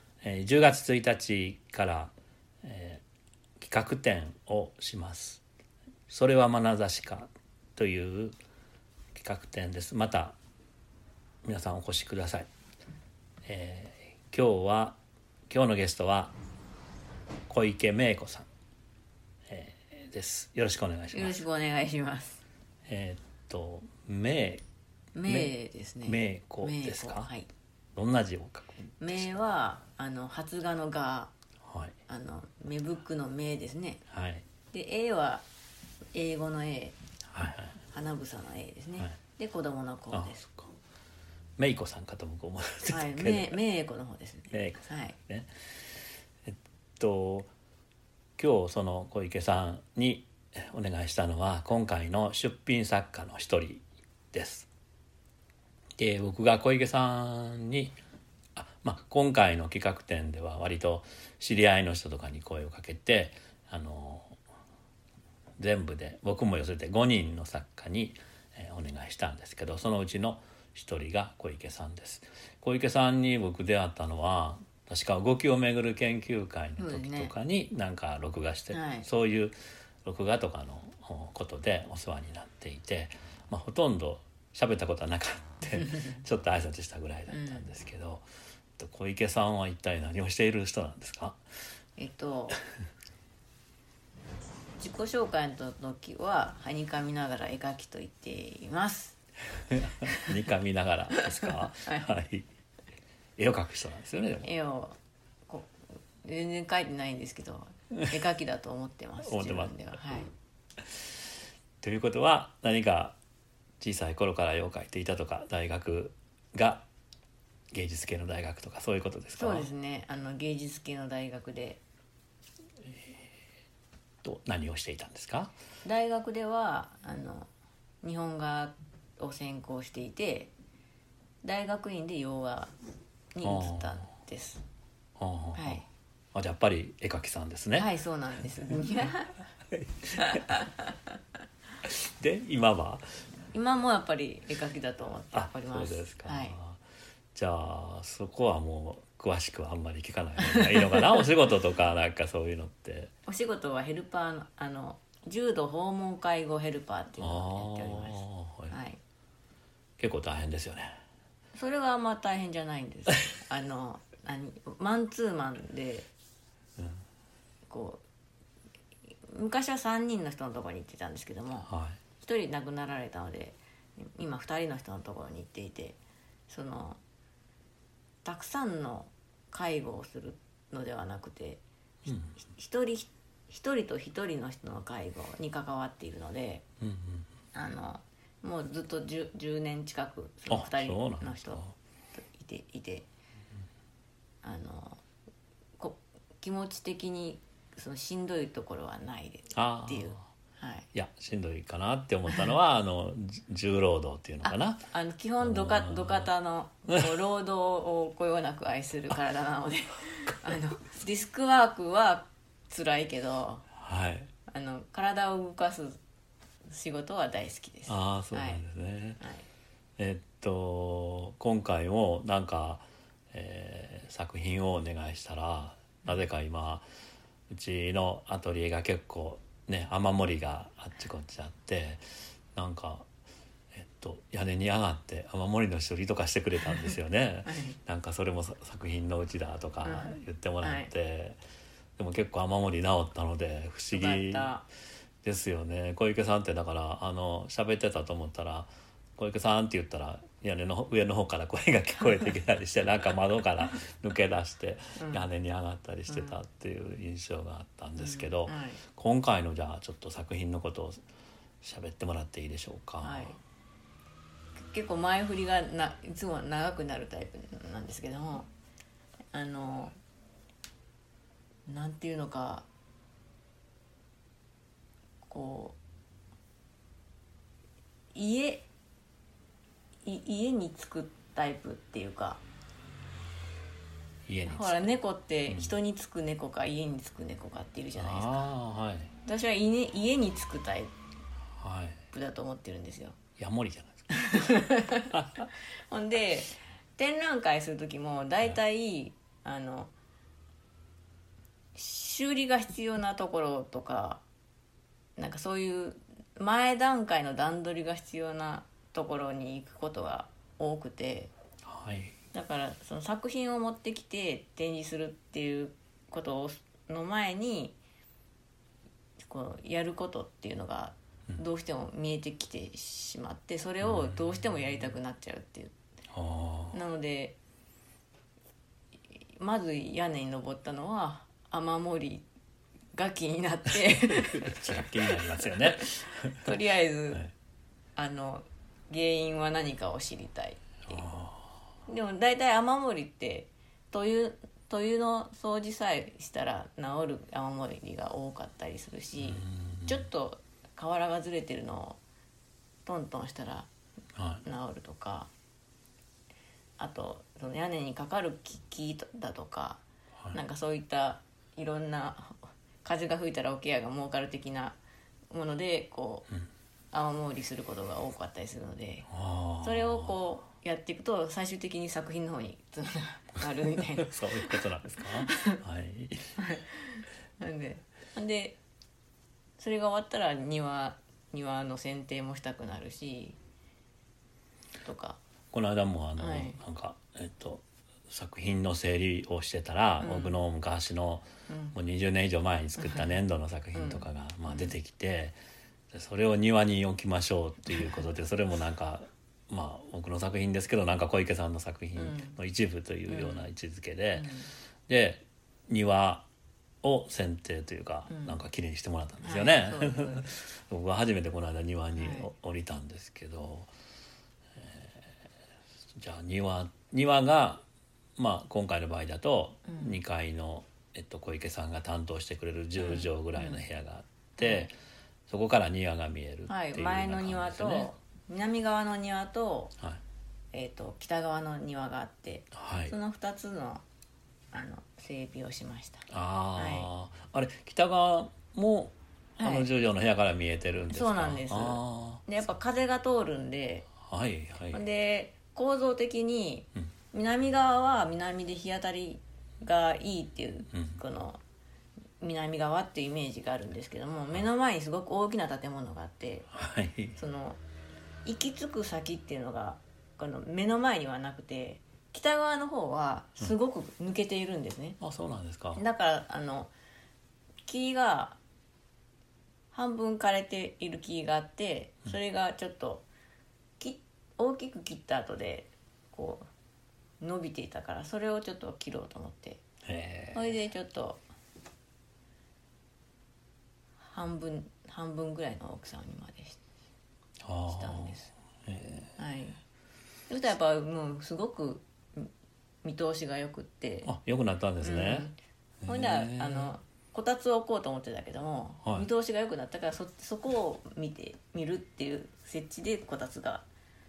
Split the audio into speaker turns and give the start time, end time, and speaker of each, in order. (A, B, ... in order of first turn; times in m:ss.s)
0:00.2-0:03.0 A
0:03.6-0:05.4 A
0:06.1-0:08.4 A
0:09.1-0:10.4 A
0:11.4-0:12.5 A
0:13.5-0:15.0 A
0:15.5-0:16.3 A
0:17.5-0:18.5 A
0:19.5-0:21.4 A
0:21.1-0:22.4 B
0:22.9-0:24.6 A
0:25.1-0:27.5 B
0:25.3-0:25.5 A
0:26.0-0:27.3 A
0:27.9-0:29.3 A
0:29.0-0:31.3 B
0:31.6-0:31.9 A
0:32.1-0:34.0 B
0:34.1-0:34.4 A
0:34.7-0:35.4 B
0:36.1-0:37.0 B
0:37.3-0:37.8 A
0:37.9-0:40.4 B
0:40.1-0:40.7 A
0:41.6-0:43.6 A
0:42.9-0:45.2 B
0:44.5-0:45.5 A
0:46.4-0:47.5 A
0:48.4-0:54.7 A
0:56.0-0:58.0 A
0:58.6-1:04.4 A
1:05.6-1:28.2 A
1:16.8-1:17.3 B
1:18.7-1:19.1 B
1:25.8-1:26.1 B
1:27.3-1:27.7 B
1:28.8-1:31.4 A
1:32.0-1:32.6 B
1:34.8-1:39.2 B
1:39.7-1:42.4 A
1:41.2-1:42.2 B
1:43.4-1:44.5 A
1:44.4-1:44.9 B
1:45.5-1:50.3 B
1:49.2-1:50.0 A
1:51.8-1:53.2 A
1:53.8-1:56.8 A
1:57.7-1:59.7 A
1:59.4-2:01.8 B
2:04.2-2:05.5 A
2:05.8-2:07.5 B
2:08.0-2:10.5 B
2:11.4-2:12.7 B
2:13.3-2:14.6 B
2:13.4-2:14.0 A
2:15.2-2:15.8 A
2:15.5-2:15.8 B
2:16.3-2:17.9 A
2:17.8-2:19.4 B
2:19.7-2:20.6 A
2:20.2-2:20.7 B
2:21.8-2:23.0 A
2:23.5-2:26.6 B
2:25.3-2:26.8 A
2:27.3-2:33.1 A
2:30.4-2:31.2 B
2:33.2-2:39.0 B
2:37.2-2:38.8 A
2:40.0-2:40.9 A
2:41.5-2:46.1 B
2:46.8-2:47.0 A
2:47.7-2:48.0 B
2:49.3-2:56.0 B
2:51.7-2:52.0 A
2:56.5-2:57.0 B
2:58.2-3:06.6 B
3:02.1-3:02.4 A
3:06.8-3:07.3 A
3:07.5-3:11.6 B
3:10.5-3:11.8 A
3:12.3-3:13.1 B
3:14.4-3:15.0 B
3:15.8-3:20.9 B
3:19.5-3:20.2 A
3:20.9-3:24.8 A
3:24.4-3:33.7 B
3:25.4-3:26.3 A
3:33.8-3:34.3 A
3:34.5-3:36.0 B
3:36.7-3:38.6 B
3:37.9-3:39.2 A
3:40.0-3:46.8 A
3:47.5-3:52.0 A
3:52.5-3:53.0 A
3:53.7-4:01.4 A
3:57.5-3:57.8 B
3:59.8-4:00.9 B
4:02.0-4:04.5 A
4:03.9-4:04.6 B
4:05.2-4:21.0 A
4:15.0-4:15.3 B
4:16.1-4:16.4 B
4:18.0-4:18.8 B
4:21.6-4:23.3 A
4:23.0-4:23.4 B
4:24.6-4:28.5 B
4:29.3-4:30.0 B
4:31.7-4:32.7 B
4:35.3-4:35.8 B
4:38.1-4:38.7 B
4:40.0-4:42.4 B
4:44.3-4:44.9 A
4:44.5-4:48.5 B
4:45.5-4:45.7 A
4:48.0-4:49.1 A
4:49.2-4:50.9 B
4:51.6-4:52.0 A
4:52.1-4:53.2 B
4:53.4-4:54.2 A
4:54.2-4:55.2 B
4:55.1-4:55.5 A
4:55.9-4:59.9 B
5:01.8-5:04.2 B
5:05.2-5:11.3 B
5:11.6-5:12.1 A
5:12.3-5:17.8 B
5:19.2-5:25.7 B
5:23.8-5:24.4 A
5:26.1-5:26.8 A
5:26.7-5:27.4 B
5:29.4-5:32.2 B
5:33.0-5:37.3 B
5:34.1-5:36.5 A
5:38.0-5:41.1 B
5:40.9-5:41.5 A
5:41.9-5:52.0 B
5:49.2-5:50.0 A
5:52.8-5:53.7 B
5:54.2-5:54.4 A
5:54.4-5:55.3 B
5:56.8-6:04.8 B
6:05.3-6:06.3 B
6:06.9-6:09.1 B
6:09.1-6:10.2 A
6:09.6-6:15.6 B
6:14.0-6:16.3 A
6:16.4-6:18.6 B
6:19.6-6:23.4 B
6:24.8-6:25.2 B
6:25.5-6:35.4 A
6:26.2-6:26.6 B
6:30.0-6:30.4 B
6:31.5-6:31.8 B
6:32.8-6:33.2 B
6:33.7-6:34.7 B
6:35.9-6:44.3 A
6:37.7-6:38.0 B
6:42.0-6:42.4 B
6:43.1-6:43.5 B
6:44.2-6:44.5 B
6:44.9-6:46.3 A
6:46.8-6:53.7 A
6:48.1-6:48.4 B
6:49.2-6:50.3 B
6:52.0-6:52.3 B
6:54.6-6:55.1 A
6:56.0-6:57.6 A
6:58.2-7:04.8 A
6:59.7-7:00.0 B
7:02.8-7:03.6 B
7:04.4-7:04.7 B
7:05.3-7:07.9 A
7:06.5-7:09.8 B
7:10.5-7:13.8 B
7:12.5-7:13.0 A
7:14.5-7:16.9 B
7:16.1-7:22.3 A
7:19.4-7:19.7 B
7:20.9-7:23.9 B
7:24.1-7:24.8 A
7:24.7-7:31.4 B
7:30.7-7:31.0 A
7:32.2-7:36.5 B
7:36.5-7:37.2 A
7:37.2-7:37.6 B
7:38.2-7:45.0 B
7:45.0-7:45.8 A
7:45.8-7:46.7 B
7:47.7-7:48.4 B
7:49.7-7:53.1 B
7:53.8-7:56.4 B
7:57.2-7:59.6 B
7:59.9-8:00.5 A
8:00.3-8:01.2 B
8:04.1-8:06.6 B
8:07.4-8:09.1 A
8:07.7-8:08.3 B
8:09.2-8:09.6 B
8:10.3-8:12.3 B
8:12.8-8:14.1 B
8:14.0-8:15.3 A
8:14.8-8:15.4 B
8:15.8-8:16.7 A
8:15.9-8:23.6 B